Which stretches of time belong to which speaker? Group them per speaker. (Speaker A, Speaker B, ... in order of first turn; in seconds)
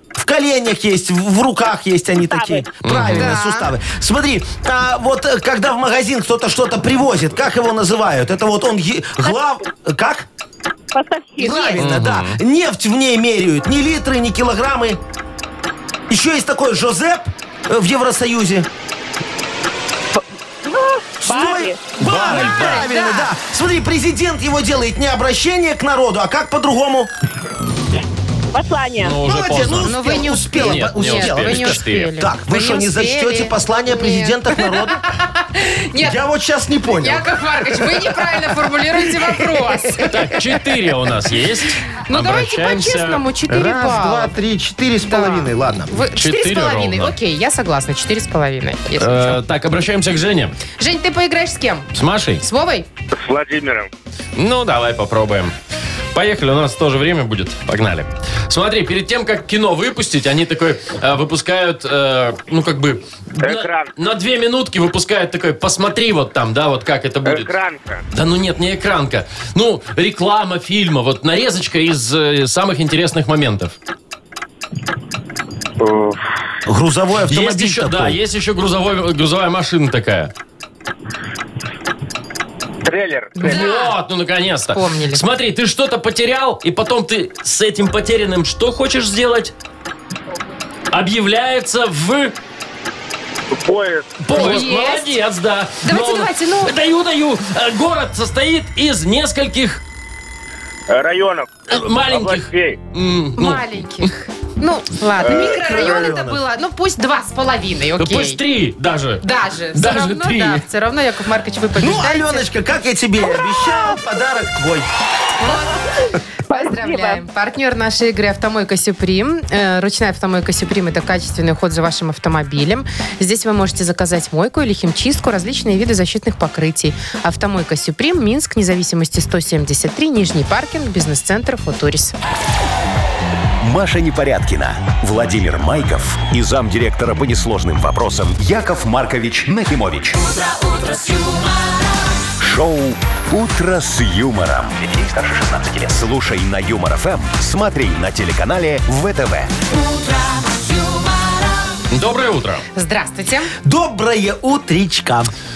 Speaker A: 0.2-10.3, 11.4-15.0, 16.1-18.7, 21.2-27.1, 29.2-35.0, 36.0-38.4, 43.5-46.0, 76.7-78.2, 105.2-106.4, 111.8-114.9, 153.6-155.3
Speaker B: 2.2-2.7, 10.9-11.8, 20.2-21.9, 28.5-29.2, 116.5-117.2, 140.3-141.8, 150.4-150.6
Speaker C: 2.8-3.4, 11.8-12.4, 22.0-22.9, 29.0-30.0, 30.5-32.1, 40.1-43.2, 46.1-47.1, 49.0-50.6, 51.9-52.5, 54.4-55.5, 56.1-67.5, 68.1-73.8, 77.3-80.3, 83.4-89.5, 90.9-92.3, 94.2-99.8, 101.7-104.1, 108.0-110.7, 151.9-152.6
Speaker D: 3.1-3.7, 11.4-11.8, 22.1-23.3, 29.8-36.2, 37.0-40.4, 42.0-44.4, 45.0-49.4, 50.8-51.9, 52.4-52.9, 83.4-84.0, 84.7-85.2, 94.3-95.2, 95.8-96.7, 103.4-108.4, 109.2-112.5, 115.4-115.8, 116.5-132.1, 152.8-153.5
Speaker E: 53.1-53.9, 63.4-63.9, 67.2-68.0, 75.8-76.2, 82.8-83.7, 93.5-94.2, 100.9-102.8
Speaker F: 133.6-140.2, 142.4-149.5